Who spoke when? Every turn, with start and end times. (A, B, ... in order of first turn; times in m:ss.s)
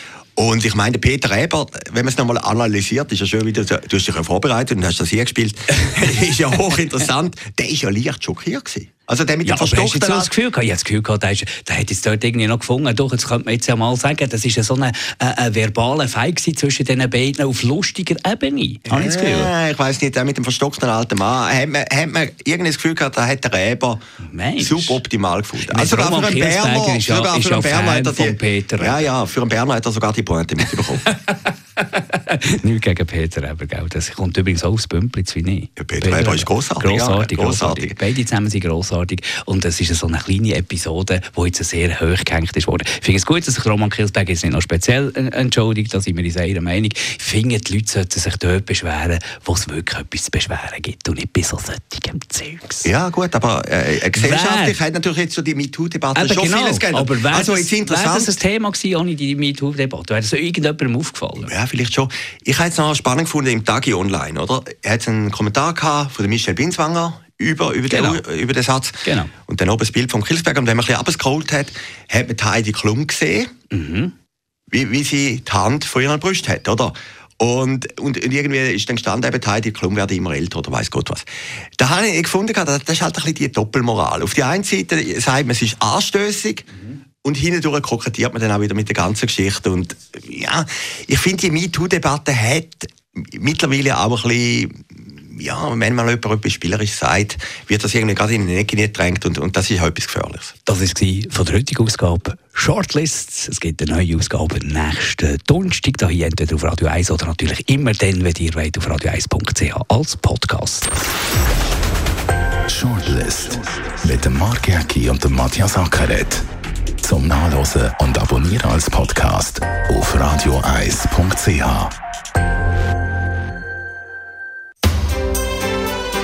0:00.4-0:10.3 A
0:09.4-0:19.5 B
0:18.9-0:24.0 A
0:24.2-0:25.0 B
0:24.6-0:31.0 A
0:25.6-0:29.0 B
0:31.1-0:52.9 B
0:35.8-0:38.0 A
0:52.8-0:58.4 A
0:54.1-0:54.8 B
0:56.2-1:01.5 B
1:01.5-1:13.5 A
1:07.9-1:08.2 B
1:09.0-1:09.3 B
1:13.7-1:14.1 B
1:14.7-1:21.3 A
1:21.8-1:26.7 A
1:27.2-1:40.5 A
1:40.7-1:50.9 B
1:52.7-1:56.4 C
1:57.0-2:01.9 C